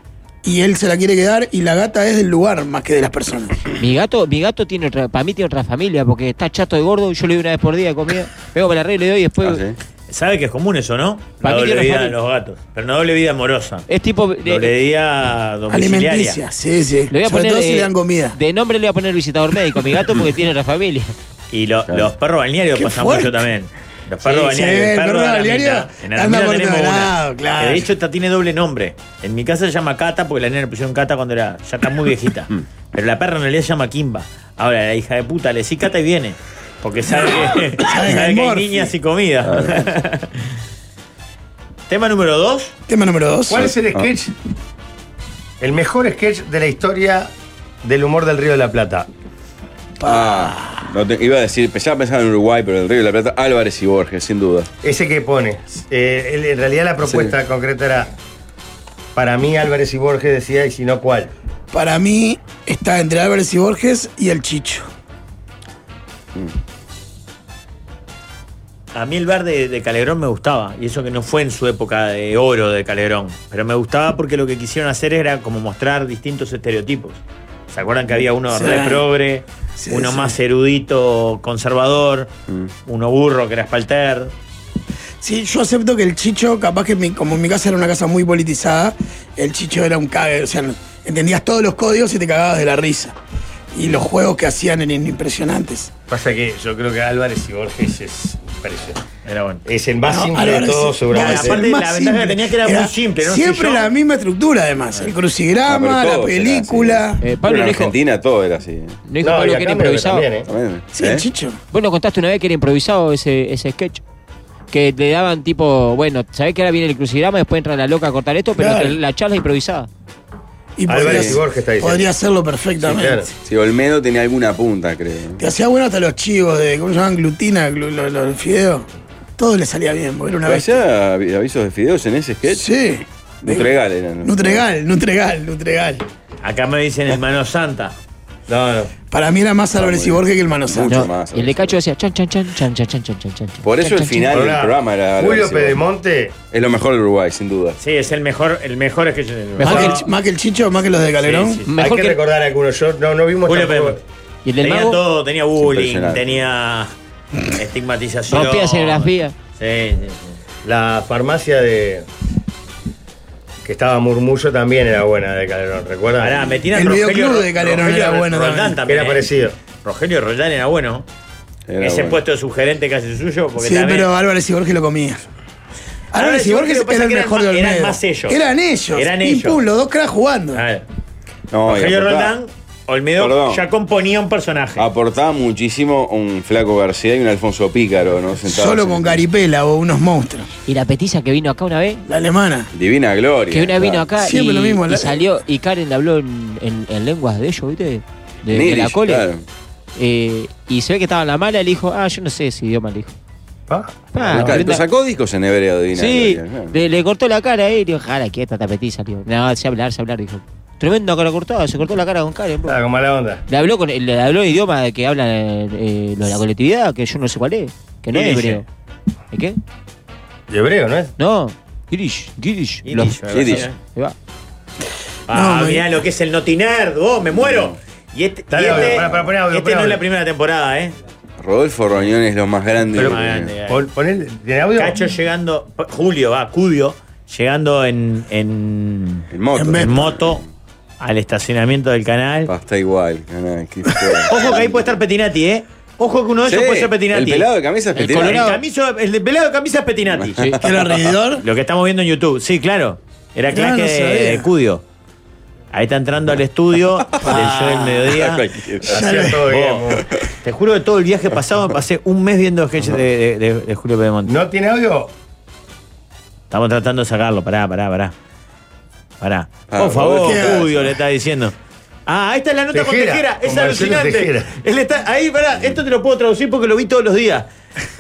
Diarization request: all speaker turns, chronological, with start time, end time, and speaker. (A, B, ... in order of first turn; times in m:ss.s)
0:00.4-0:03.6 A
0:03.8-0:09.6 B
0:09.4-0:09.8 C
0:10.1-0:13.9 D
0:11.4-0:12.2 B
0:13.9-0:14.7 B
0:14.4-0:16.4 D
0:15.7-0:18.4 A
0:17.1-0:21.1 B
0:21.5-0:40.5 D
0:22.8-0:23.4 A
0:24.2-0:27.9 A
0:37.1-0:38.9 A
0:39.4-0:39.9 C
0:41.9-0:42.7 D
0:42.9-0:43.7 A
0:43.5-0:44.3 E
0:43.6-0:44.1 C
0:45.6-0:47.3 E
0:47.8-0:49.1 E
0:50.0-0:51.0 A
0:50.0-0:54.7 C
0:54.8-0:58.1 E
0:57.0-0:57.3 C
0:59.2-1:01.3 E
1:01.7-1:04.9 A
1:08.9-1:22.3 D
1:18.5-1:19.1 A
1:19.8-1:20.4 A
1:22.9-1:24.3 D
1:25.2-1:33.2 A
1:33.7-1:35.9 A
1:36.1-1:39.0 E
1:39.3-1:39.6 D
1:39.7-1:41.6 E
1:40.0-1:47.2 A
1:41.1-1:43.9 D
1:45.7-1:49.0 C
1:47.2-1:48.0 B
1:49.1-1:50.3 B
1:49.2-1:50.5 E
1:50.5-1:51.2 C
1:50.9-1:51.6 A
1:51.7-1:54.0 B
1:54.7-1:59.9 B
1:58.6-1:59.0 A
2:00.8-2:03.2 A
2:00.9-2:02.1 E
2:01.0-2:01.4 C
2:02.8-2:03.3 E
2:03.4-2:05.4 C
2:05.4-2:10.8 A
2:10.5-2:12.6 C
2:12.5-2:13.7 A
2:13.4-2:14.6 C
2:14.2-2:16.0 A
2:16.4-2:18.0 D
2:18.5-2:19.0 E
2:19.1-2:21.1 A
2:19.8-2:21.8 C
2:20.9-2:24.3 B
2:23.6-2:25.8 C
2:24.3-2:26.4 E
2:26.5-2:27.8 C
2:27.8-2:30.0 D
2:29.6-2:30.0 B
2:29.6-2:31.6 A
2:31.2-2:31.7 D
2:31.7-2:32.2 B
2:31.8-2:34.0 E
2:33.5-2:34.0 D
2:34.4-2:35.0 B
2:34.6-2:36.9 D
2:35.6-2:36.4 C
2:37.4-2:40.4 D
2:38.3-2:39.3 B
2:40.6-2:42.1 E
2:43.6-2:46.5 E
2:46.2-2:49.3 D
2:46.7-2:48.8 A
2:48.8-2:49.6 E
2:49.8-2:51.0 D
2:51.7-2:52.2 C
2:51.8-2:54.1 D
2:53.6-2:55.2 A
2:56.1-3:00.6 A
2:56.2-2:58.4 D
2:59.0-2:59.6 D
3:00.5-3:00.9 D
3:01.5-3:02.3 C
3:01.6-3:04.9 D
3:03.2-3:03.6 C
3:04.8-3:09.2 C
3:08.4-3:10.5 A
3:10.7-3:12.0 B
3:12.1-3:12.7 A
3:12.7-3:14.1 C
3:13.5-3:19.3 B
3:14.2-3:15.2 A
3:18.5-3:19.4 C
3:20.0-3:23.1 B
3:23.7-3:24.6 E
3:24.1-3:24.8 B
3:24.2-3:26.8 C
3:26.0-3:32.8 B
3:32.6-3:33.4 E
3:33.5-3:38.6 B
3:38.1-3:38.6 D
3:39.3-3:39.6 B
3:40.5-3:41.1 E
3:41.2-3:44.2 B
3:42.9-3:43.8 D
3:43.3-3:43.7 C
3:45.3-3:45.9 A
3:45.3-3:50.9 D
3:47.4-3:47.7 C
3:48.5-3:50.0 E
3:48.8-3:49.1 C
3:51.4-3:53.5 C
3:53.0-3:55.0 E
3:53.0-3:53.9 D
3:54.8-4:00.4 D
3:59.3-4:00.4 C
3:59.5-4:00.2 A
4:01.0-4:02.5 D
4:02.5-4:05.0 C
4:03.9-4:04.3 A
4:04.3-4:10.7 D
4:06.4-4:08.5 C
4:08.0-4:08.6 B
4:10.2-4:11.1 C
4:10.6-4:11.4 A
4:11.4-4:14.8 D
4:13.5-4:14.5 A
4:15.7-4:18.5 D
4:17.2-4:18.1 A
4:18.0-4:19.1 C
4:18.9-4:20.0 E
4:18.9-4:19.5 A
4:19.5-4:19.9 D
4:20.4-4:24.4 D
4:24.3-4:25.1 E
4:26.5-4:28.1 D
4:29.2-4:31.5 D
4:29.7-4:30.8 C
4:30.2-4:30.7 A
4:32.1-4:37.5 D
4:32.7-4:34.5 E